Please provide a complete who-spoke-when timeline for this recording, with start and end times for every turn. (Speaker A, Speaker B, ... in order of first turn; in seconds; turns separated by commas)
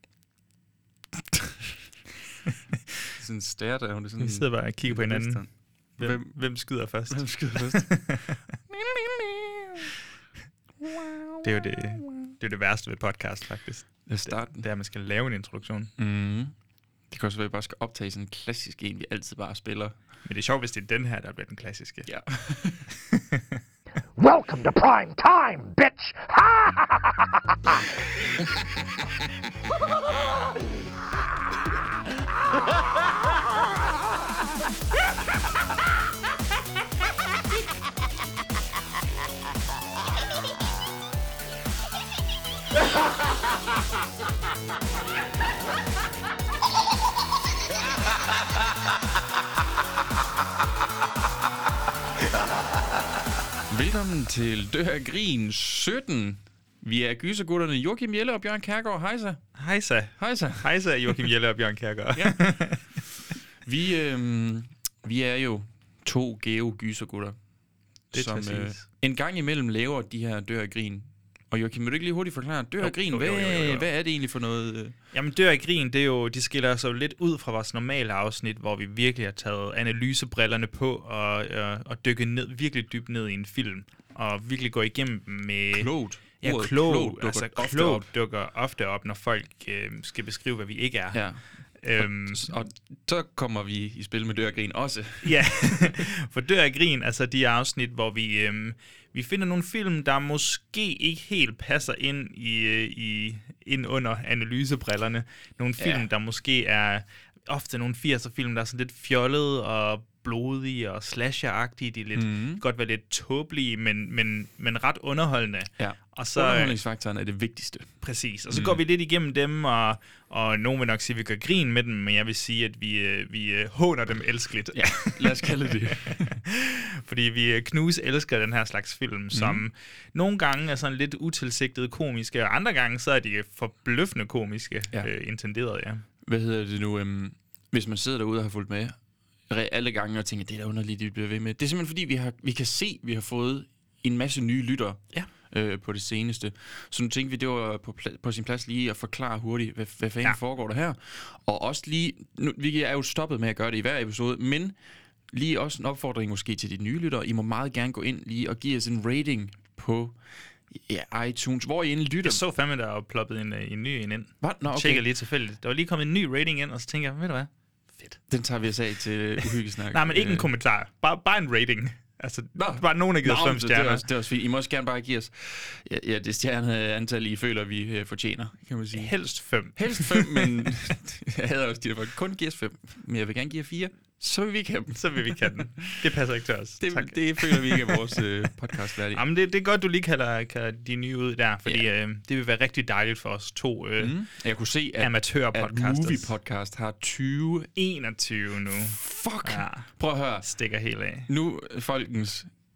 Speaker A: 3.2-8.2, Speaker B: 4.2-8.3, Speaker A: 8.7-9.8, Speaker A: 10.8-11.4, Speaker B: 11.4-15.9, Speaker A: 14.1-14.6, Speaker A: 16.0-16.5, Speaker A: 17.1-19.9, Speaker B: 20.2-22.1, Speaker A: 22.1-22.9, Speaker B: 23.1-23.6, Speaker C: 24.2-26.8, Speaker A: 53.7-59.5, Speaker B: 59.6-62.9, Speaker A: 60.2-61.2, Speaker A: 62.1-67.4, Speaker B: 68.1-68.9, Speaker A: 68.1-75.0, Speaker B: 72.8-73.9, Speaker B: 75.1-91.2, Speaker A: 85.7-88.1, Speaker A: 91.1-96.0, Speaker B: 91.7-92.6, Speaker B: 95.2-116.8, Speaker A: 105.8-106.1, Speaker A: 112.2-112.6, Speaker A: 115.8-117.9, Speaker B: 118.0-125.5, Speaker A: 118.5-118.8, Speaker A: 124.7-126.4, Speaker B: 126.0-136.0, Speaker A: 129.3-129.6, Speaker A: 136.2-139.0, Speaker A: 139.5-154.8, Speaker A: 155.3-160.2, Speaker A: 160.7-162.4, Speaker B: 162.2-168.2, Speaker A: 164.4-165.1, Speaker A: 168.3-170.5, Speaker B: 169.4-174.1, Speaker A: 172.6-185.9, Speaker B: 178.9-180.7, Speaker B: 184.9-188.0, Speaker A: 186.8-189.2, Speaker B: 189.2-194.1, Speaker A: 194.0-197.7, Speaker B: 195.0-196.3, Speaker B: 197.8-199.9, Speaker A: 198.7-200.5, Speaker B: 200.4-201.3, Speaker A: 201.3-202.5